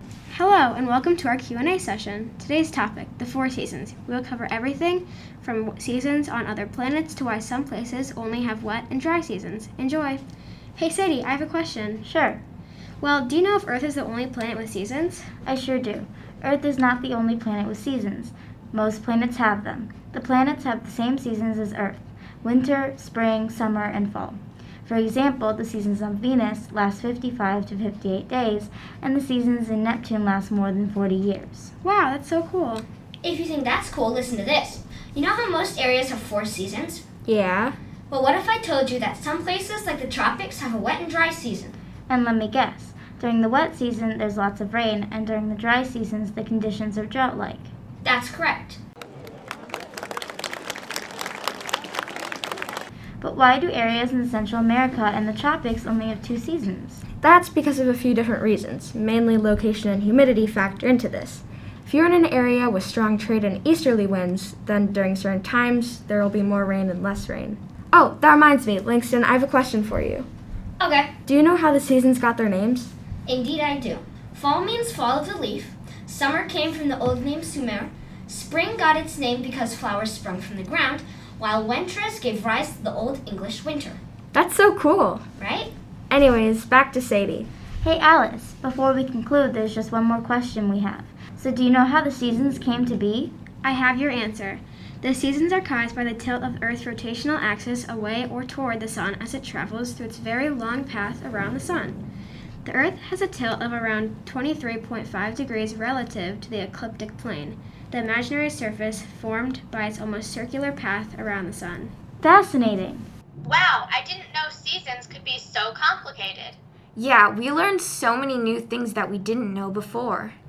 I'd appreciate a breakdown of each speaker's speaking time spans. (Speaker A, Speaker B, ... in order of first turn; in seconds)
Speaker A: 0.3-10.2, 10.8-12.0, 13.0-15.2, 31.8-32.9, 93.6-102.0, 102.6-111.9
Speaker B: 12.0-12.4, 15.4-31.7, 42.1-47.7, 53.2-57.0, 87.8-93.3, 112.2-113.1
Speaker C: 33.2-37.0, 38.1-41.8, 48.0-48.8, 70.8-71.1, 73.3-84.0, 85.4-85.7
Speaker D: 37.3-37.8, 57.2-70.3, 71.3-72.9, 84.3-85.2, 86.1-87.5
Speaker E: 113.4-116.5
Speaker F: 117.0-120.3